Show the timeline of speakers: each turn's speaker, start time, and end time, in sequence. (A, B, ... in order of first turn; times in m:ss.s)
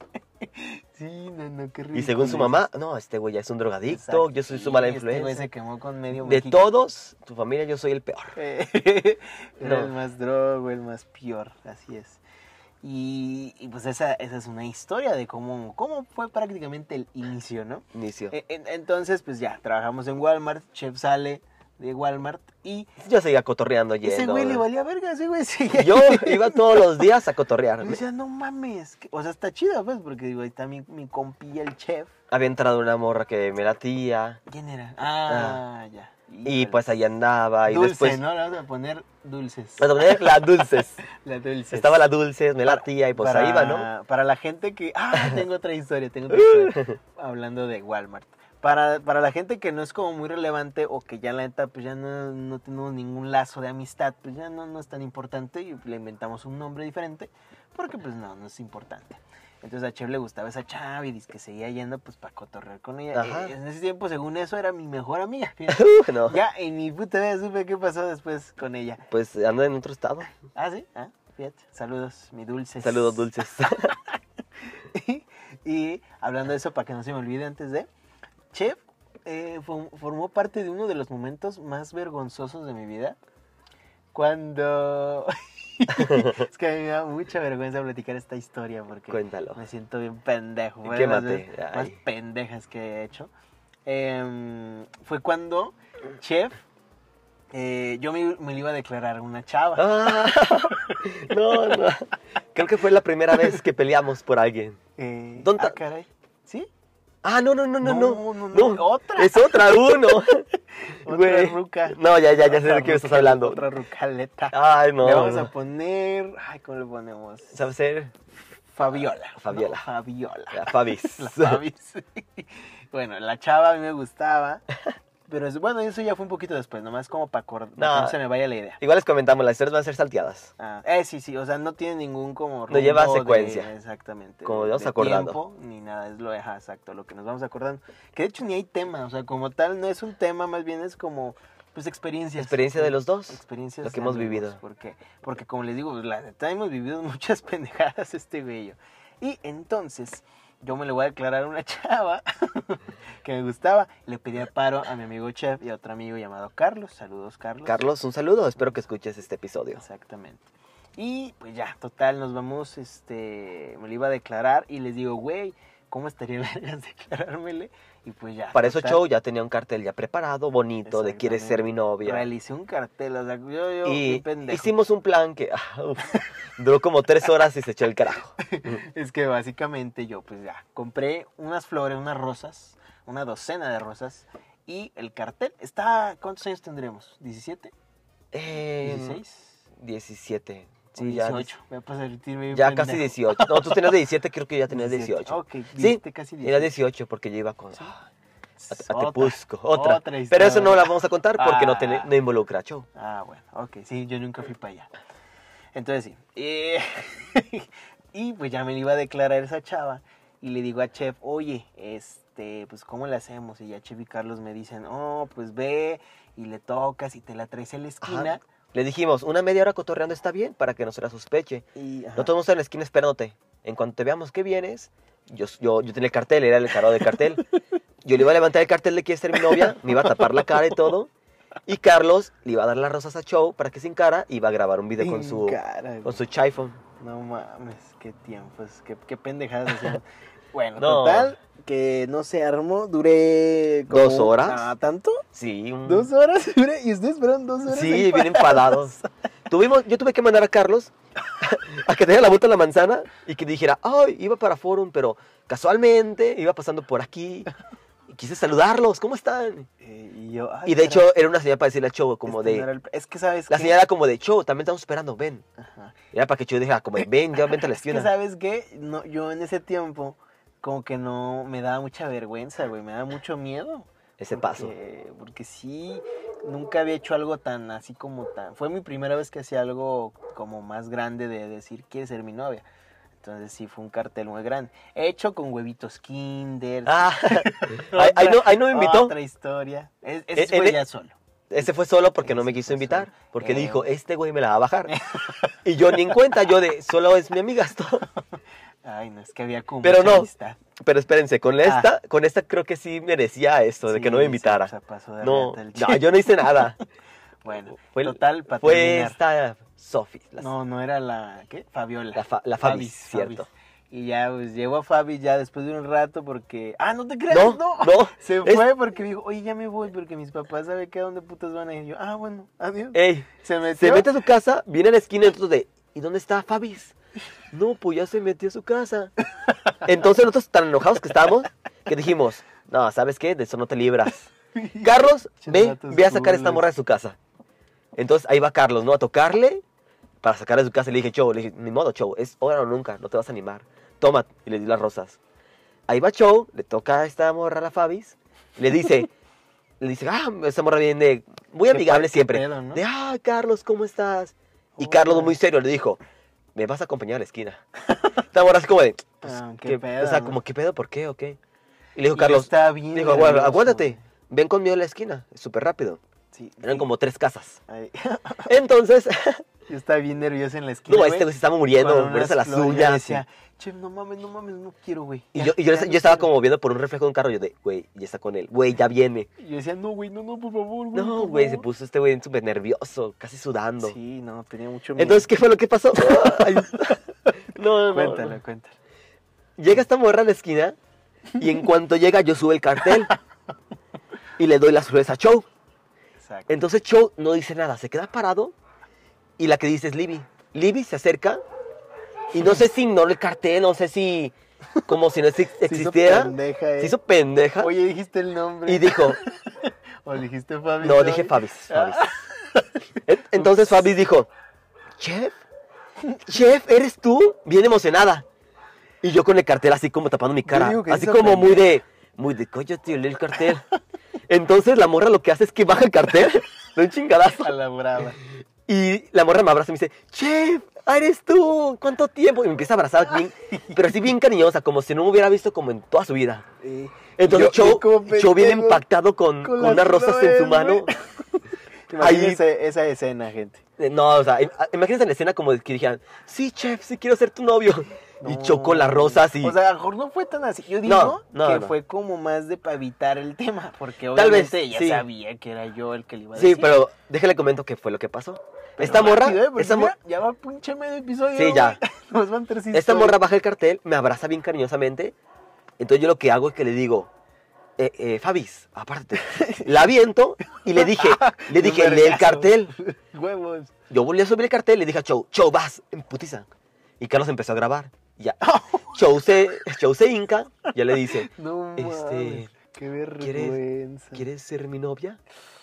0:00.4-0:02.6 A
0:01.9-0:05.5 B
0:03.9-0:06.6 A
0:06.2-0:08.4 B
0:08.4-0:12.2 A
0:09.6-0:09.9 B
0:12.8-0:22.9 A
0:17.9-0:18.3 B
0:23.0-0:24.6 B
0:24.0-0:27.0 A
0:25.7-0:28.0 B
0:27.8-0:32.1 A
0:32.3-0:34.4 B
0:34.5-0:36.9 A
0:35.3-0:35.6 B
0:36.4-0:38.2 B
0:37.7-0:42.0 A
0:39.8-0:41.0 B
0:41.7-0:43.9 B
0:42.6-1:09.0 A
0:46.3-0:47.0 B
1:03.1-1:03.5 B
1:05.7-1:06.4 B
1:09.1-1:10.3 B
1:10.5-1:13.3 A
1:12.8-1:13.9 B
1:14.7-1:17.9 A
1:18.5-1:23.2 A
1:24.1-1:33.3 A
1:25.9-1:26.4 B
1:29.1-1:29.6 B
1:30.8-1:32.0 B
1:33.8-1:36.6 A
1:37.5-1:41.8 A
1:39.8-1:44.8 B
1:45.0-1:46.7 A
1:45.4-1:45.8 B
1:47.2-1:50.4 B
1:47.8-1:50.1 A
1:50.7-1:57.6 A
1:51.0-1:53.6 B
1:54.5-1:55.5 B
1:57.5-1:58.1 B
1:58.7-2:04.6 A
1:59.4-1:59.8 B
2:00.5-2:01.6 B
2:05.3-2:08.8 A
2:07.8-2:08.2 B
2:08.8-2:10.5 B
2:10.6-2:37.9 A
2:12.7-2:13.7 B
2:14.4-2:15.4 B
2:22.4-2:24.6 B
2:37.6-2:39.8 B
2:39.7-2:49.0 A
2:48.5-2:52.3 B
2:50.8-2:54.7 A
2:53.8-2:58.8 B
2:58.4-3:07.7 A
3:08.3-3:09.2 B
3:08.8-3:09.6 A
3:09.8-3:11.5 B
3:11.0-3:13.9 A
3:12.5-3:18.0 B
3:14.7-3:16.7 A
3:18.6-3:22.1 A
3:18.7-3:22.9 B
3:22.9-3:24.9 A
3:25.7-3:38.4 A
3:38.0-3:47.4 B
3:41.8-3:42.3 A
3:48.0-3:51.1 B
3:49.3-3:50.8 A
3:51.7-3:56.8 B
3:55.0-3:56.2 A
3:57.0-4:05.2 A
4:00.8-4:01.3 B
4:03.9-4:04.7 B
4:05.3-4:06.1 B
4:05.8-4:09.0 A
4:07.7-4:09.0 B
4:09.5-4:17.5 B
4:18.1-4:19.7 B
4:19.8-4:21.1 A
4:20.6-4:22.7 B
4:22.3-4:23.8 A
4:23.5-4:25.4 B
4:25.6-4:25.9 A
4:26.1-4:28.1 B
4:27.4-4:42.6 A
4:34.2-4:34.7 B
4:43.2-4:53.9 A
4:46.8-4:49.1 B
4:50.4-4:50.8 B
4:51.5-4:54.9 B
4:54.9-4:56.3 A
4:55.6-4:58.0 B
4:58.8-5:00.6 A
4:59.8-5:04.7 B
5:01.6-5:01.9 A
5:03.8-5:06.7 A
5:05.2-5:06.8 B
5:07.4-5:09.2 A
5:07.8-5:10.5 B
5:10.4-5:24.1 A
5:12.1-5:13.5 B
5:17.3-5:18.6 B
5:22.9-5:26.9 B
5:27.5-5:29.1 B
5:29.8-5:37.2 B
5:34.5-5:36.7 A
5:38.0-5:39.6 B
5:40.2-5:45.2 B
5:45.9-5:49.1 B
5:49.8-5:56.0 B
5:51.7-5:52.8 A
5:54.8-5:55.4 A
5:56.5-5:57.6 B
5:58.3-6:01.4 B
5:59.2-6:00.4 A
6:01.9-6:06.0 B
6:02.1-6:04.0 A
6:06.3-6:06.9 A
6:06.6-6:07.6 B
6:07.7-6:08.5 A
6:08.5-6:09.4 B
6:09.7-6:16.3 A
6:10.9-6:13.2 B
6:15.3-6:19.3 B
6:19.4-6:21.6 A
6:20.9-6:24.0 B
6:23.8-6:25.3 A
6:25.0-6:28.4 B
6:26.0-6:26.9 A
6:27.9-6:28.7 A
6:29.6-6:30.8 B
6:31.4-6:33.1 B
6:34.4-6:35.4 B
6:36.2-6:36.6 A
6:36.5-6:38.5 B
6:39.4-6:41.4 B
6:42.3-6:44.3 B
6:44.8-6:47.7 B
6:45.6-6:47.0 A
6:47.6-6:52.7 A
6:48.7-6:49.2 B
6:50.8-6:52.1 B
6:53.0-6:54.3 B
6:53.3-6:53.8 A
6:55.0-6:55.4 B
6:56.2-6:58.2 B
6:59.0-7:03.6 B
7:00.4-7:01.6 A
7:04.3-7:07.5 B
7:07.4-7:08.2 A
7:08.7-7:16.4 B
7:13.5-7:13.8 A
7:16.6-7:18.8 A
7:17.2-7:20.9 B
7:19.4-7:23.6 A
7:22.0-7:22.4 B
7:23.8-7:29.6 B
7:28.2-7:36.8 A
7:30.8-7:31.7 B
7:34.1-7:35.0 B
7:36.4-7:39.9 B
7:38.8-7:43.2 A
7:41.3-7:41.8 B
7:42.7-7:45.1 B
7:45.8-7:47.1 B
7:47.8-7:52.7 B
7:49.2-7:49.7 A
7:50.5-7:53.7 A
7:53.9-7:56.5 B
7:57.0-7:58.4 B
7:58.4-7:59.0 A
7:58.9-8:02.5 B
8:01.2-8:04.2 A
8:03.2-8:03.6 B
8:04.1-8:05.2 B